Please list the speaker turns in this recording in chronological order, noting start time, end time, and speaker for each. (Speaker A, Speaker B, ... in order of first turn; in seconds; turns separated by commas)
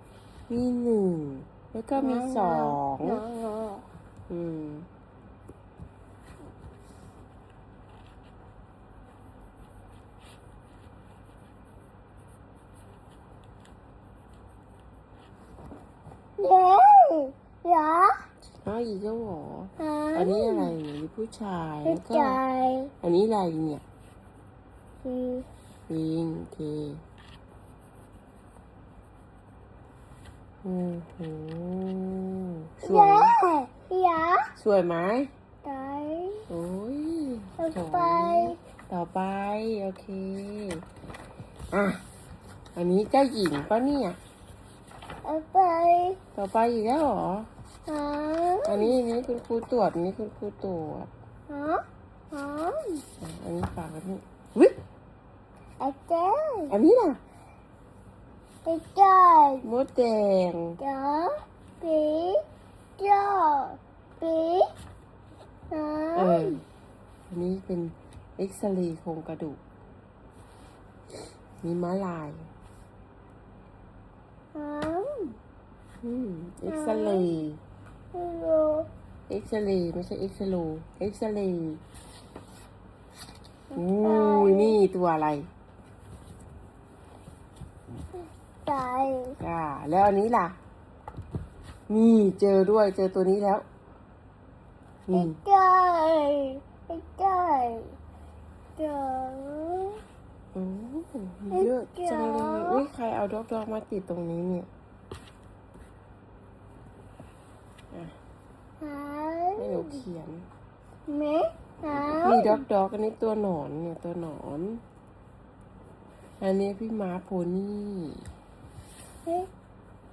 Speaker A: 0.5-3.2, Speaker B: 1.9-3.9, Speaker A: 4.3-4.9, Speaker B: 16.4-18.2, Speaker A: 18.6-22.4, Speaker B: 19.8-20.7, Speaker B: 21.8-22.9, Speaker A: 23.0-23.8, Speaker B: 25.0-25.5, Speaker A: 25.9-27.0, Speaker A: 30.6-33.4, Speaker B: 32.8-34.5, Speaker A: 34.5-35.3, Speaker B: 35.6-36.5, Speaker A: 36.5-40.8, Speaker B: 37.6-38.6, Speaker A: 41.7-42.0, Speaker A: 42.7-44.2, Speaker B: 45.2-46.2, Speaker A: 46.3-47.5, Speaker B: 47.9-49.0, Speaker A: 48.6-51.1, Speaker B: 51.5-53.0, Speaker A: 53.2-54.8, Speaker B: 55.8-56.7, Speaker A: 56.7-57.2, Speaker B: 58.6-59.6, Speaker A: 59.6-60.8, Speaker B: 60.8-62.5, Speaker B: 63.0-64.7, Speaker B: 65.7-66.6, Speaker A: 66.1-66.6, Speaker A: 67.3-69.6, Speaker A: 71.6-72.5, Speaker B: 74.5-75.4, Speaker A: 76.0-77.6, Speaker B: 76.7-77.3, Speaker B: 78.1-78.9, Speaker A: 79.3-81.8, Speaker B: 83.7-84.8, Speaker A: 83.7-85.5, Speaker B: 88.6-89.4, Speaker A: 89.4-90.6, Speaker A: 91.9-93.6, Speaker A: 95.1-95.4, Speaker B: 95.1-98.0, Speaker B: 98.8-100.0, Speaker A: 100.5-104.7, Speaker B: 101.5-102.8, Speaker B: 108.8-110.0, Speaker A: 109.6-110.5, Speaker B: 111.1-112.6, Speaker A: 112.1-114.8, Speaker A: 116.4-118.2